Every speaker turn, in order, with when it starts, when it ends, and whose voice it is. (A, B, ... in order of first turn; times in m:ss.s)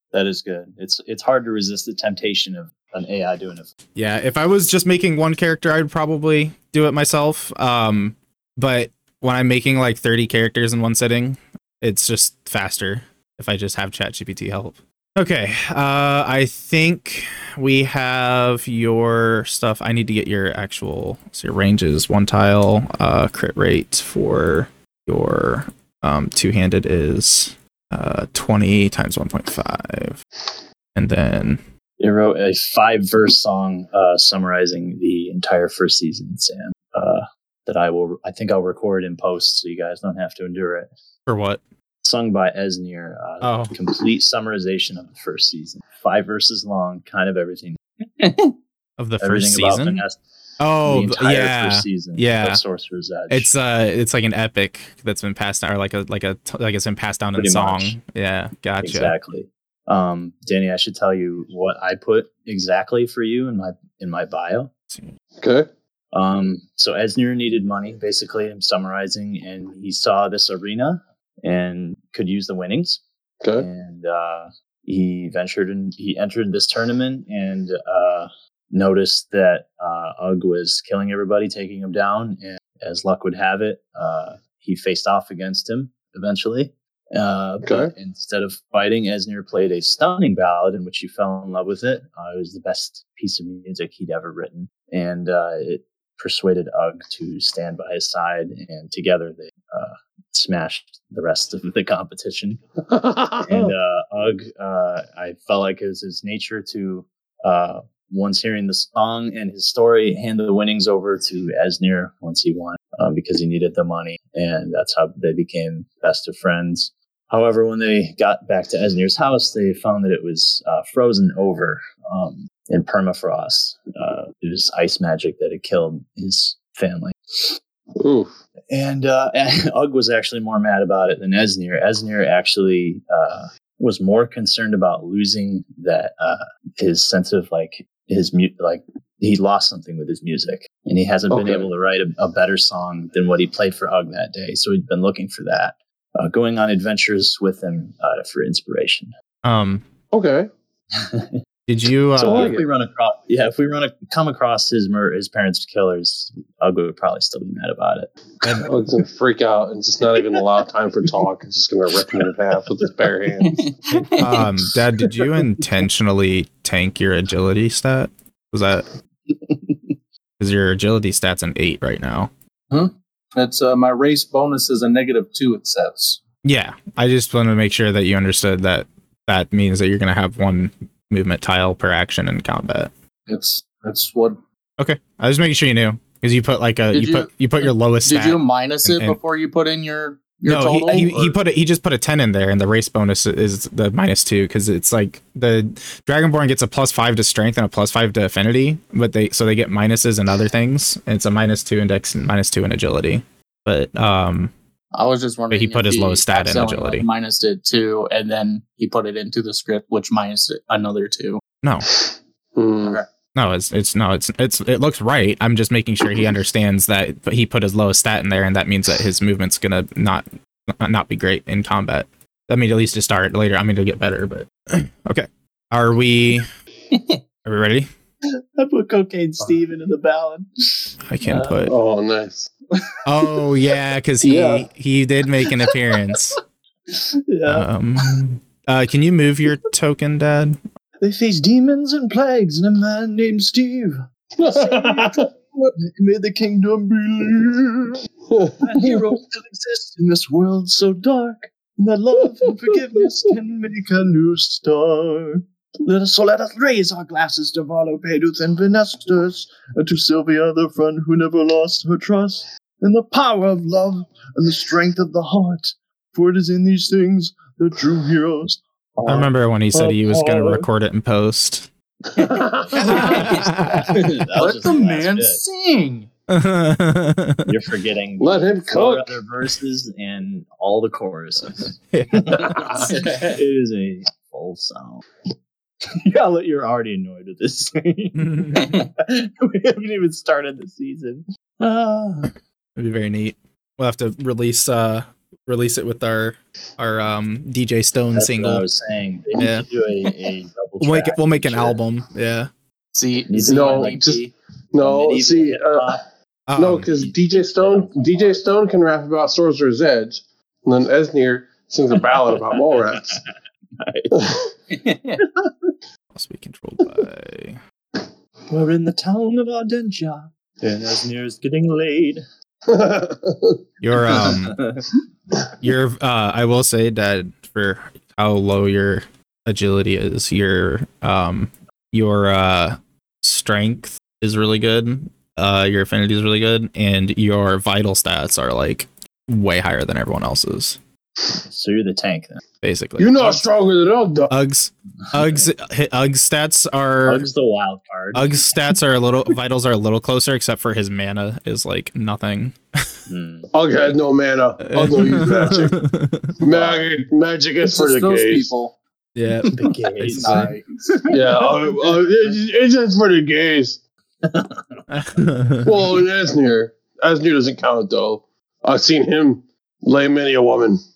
0:00.1-0:03.7 A
0:04.0-0:30.2 B
0:30.9-0:31.6 B
0:32.0-0:40.9 A
0:41.3-0:41.6 B
0:42.0-0:47.8 A
0:43.4-0:43.7 B
0:49.0-0:50.0 B
0:49.2-0:50.2 A
0:50.6-0:52.6 B
0:50.8-0:53.5 A
0:53.3-0:59.1 B
0:57.3-0:58.0 A
0:58.8-1:04.7 A
1:05.4-1:05.7 C
1:06.1-1:13.0 A
1:13.4-1:13.7 C
1:13.6-1:42.6 A
1:27.6-1:27.9 C
1:42.9-1:43.7 C
1:43.4-2:07.6 A
2:08.0-2:08.4 C
2:08.7-2:29.1 A
2:21.3-2:21.7 C
2:29.4-2:29.8 B
2:30.1-2:30.5 C
2:30.9-2:31.4 A
2:31.7-2:32.6 B
2:32.2-2:32.6 C
2:32.2-2:38.7 A
2:38.4-2:38.7 B
2:38.6-2:43.7 C
2:43.5-2:44.3 D
2:44.2-2:48.9 B
2:50.4-2:52.3 B
2:52.7-2:56.2 E
2:56.4-3:02.9 B
3:03.3-3:04.4 E
3:04.8-3:09.2 B
3:06.9-3:11.4 D
3:10.4-3:24.5 B
3:24.9-3:31.4 D
3:25.5-3:27.0 B
3:31.6-3:31.9 B
3:32.6-3:33.0 C
3:32.8-3:33.1 D
3:33.3-3:46.5 B
3:47.4-3:47.9 B
3:48.6-3:51.6 A
3:51.0-3:51.7 B
3:51.7-3:52.5 C
3:53.0-3:56.4 B
3:53.2-3:53.4 A
3:54.2-3:54.6 C
3:55.5-3:56.0 A
3:56.9-3:58.1 A
3:57.5-4:00.6 B
4:01.0-4:08.0 A
4:04.4-4:05.3 C
4:08.3-4:09.0 C
4:08.6-4:30.7 A
4:29.0-4:31.7 B
4:32.2-4:33.1 C
4:32.6-4:35.4 A
4:32.7-4:36.1 D
4:32.8-4:34.2 B
4:36.3-4:37.5 B
4:37.4-4:45.0 A
4:38.2-4:39.1 C
4:41.9-4:42.9 B
4:42.9-4:43.4 D
4:46.0-4:52.3 A
4:48.2-4:48.8 B
4:52.8-4:58.6 B
4:58.1-5:01.8 A
4:59.4-4:59.6 B
5:00.8-5:02.5 B
5:02.9-5:04.3 D
5:03.3-5:04.0 A
5:03.4-5:06.0 C
5:04.8-5:06.0 A
5:06.5-5:06.9 B
5:06.6-5:13.2 C
5:06.9-5:08.4 A
5:13.8-5:14.3 A
5:14.1-5:14.4 C
5:14.7-5:15.2 D
5:15.2-5:15.7 A
5:16.1-5:17.6 B
5:18.5-5:22.2 A
5:22.7-5:23.6 C
5:23.8-5:24.6 B
5:24.1-5:24.8 A
5:25.6-5:40.8 B
5:41.3-5:42.4 A
5:42.6-5:43.4 B
5:43.0-5:44.3 C
5:44.3-5:47.3 B
5:45.1-5:45.5 A
5:47.0-5:48.4 A
5:48.1-5:52.8 B
5:53.1-5:53.5 A
5:53.5-5:55.8 C
5:54.6-5:56.4 B
5:56.4-5:58.5 C
5:56.4-5:56.9 A
5:57.6-5:58.8 E
5:59.2-6:00.5 B
5:59.5-6:02.3 A
6:00.1-6:00.9 E
6:01.1-6:03.8 C
6:04.2-6:04.8 A
6:04.9-6:06.0 B
6:05.6-6:10.8 C